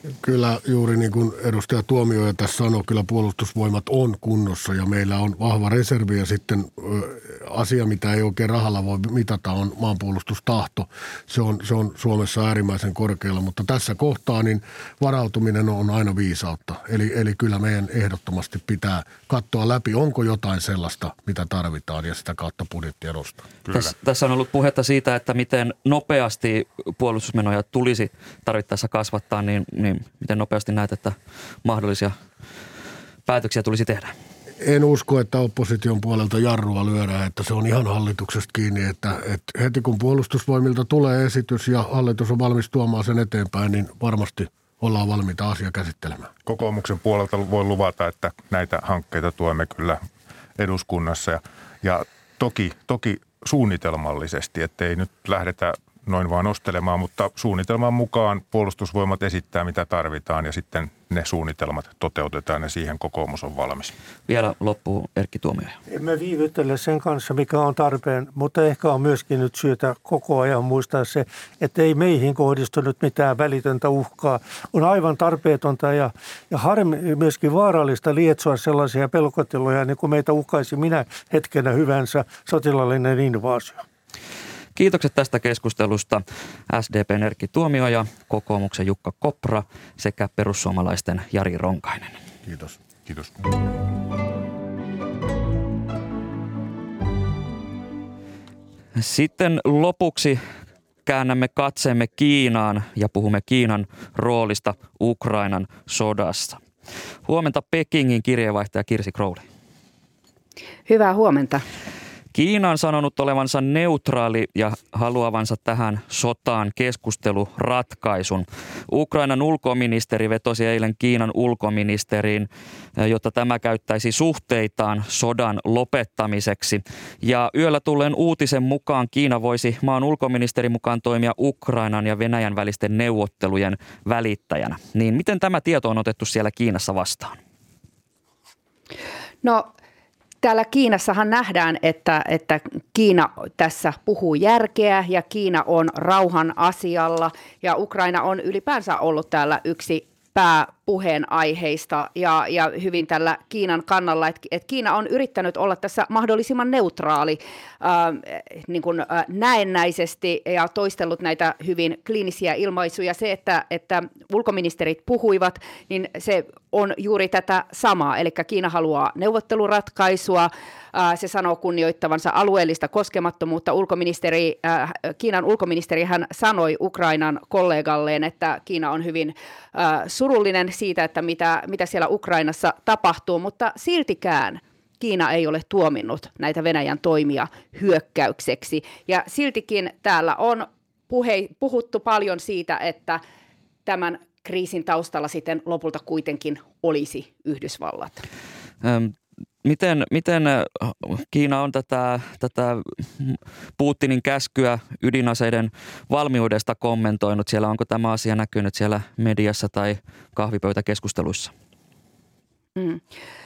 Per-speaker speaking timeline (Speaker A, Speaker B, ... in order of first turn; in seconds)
Speaker A: 0.2-23.4, 34.6-46.3, 92.5-92.8
Speaker B: 23.7-32.1, 33.2-34.1, 64.3-65.8, 84.8-92.2, 99.0-100.4, 101.0-106.6, 107.2-109.4, 112.3-137.4, 198.8-211.5
Speaker C: 46.4-50.0, 50.6-63.9, 93.1-93.3
Speaker D: 65.9-83.8
Speaker E: 110.8-111.6, 139.4-139.7, 140.4-193.2, 193.8-198.2, 212.8-213.0